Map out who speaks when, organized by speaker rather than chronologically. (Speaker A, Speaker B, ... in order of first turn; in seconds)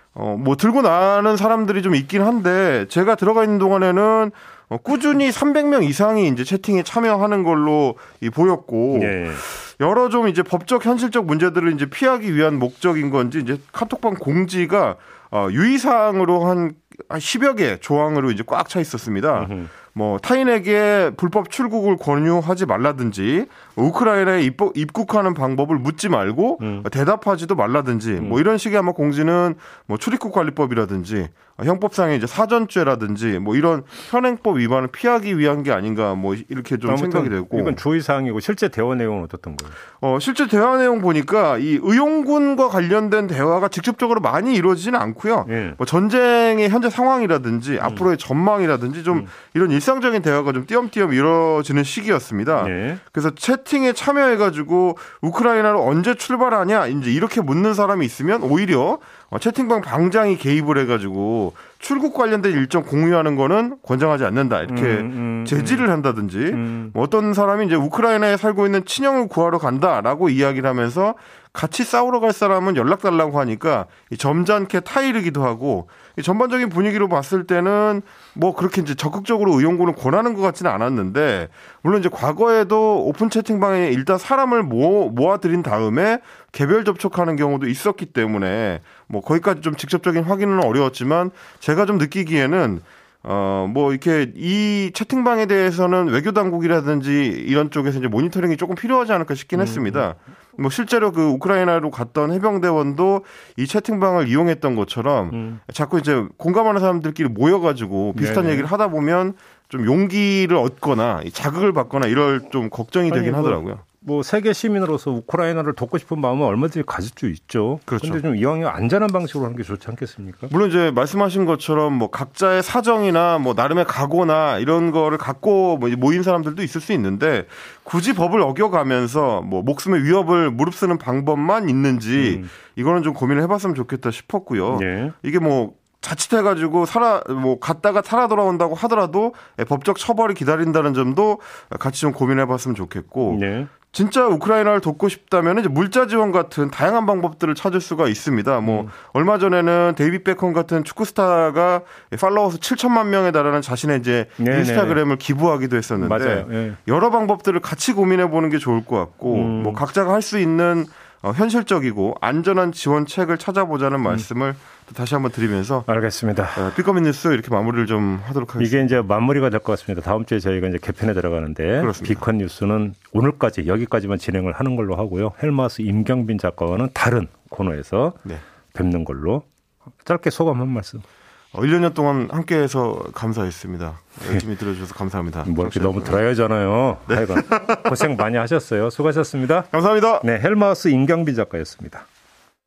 Speaker A: 0.1-37.8, 40.0-113.8, 117.9-118.2, 120.5-165.9, 166.5-169.0, 171.8-172.2, 181.5-186.2, 187.1-188.1, 189.7-190.2
Speaker B: 8.9-9.4, 19.4-19.7, 26.6-26.9, 36.9-39.8, 45.5-45.8, 52.6-53.0, 64.7-65.8, 66.5-66.9, 99.5-100.0, 105.3-105.6, 108.1-108.7, 113.1-120.5, 132.2-132.5, 134.7-135.1, 143.3-143.7, 148.6-148.9, 154.4-155.0, 156.0-156.8, 159.3-159.8, 165.9-166.7, 168.6-179.4, 180.0-181.0, 185.4-189.7, 190.2-192.0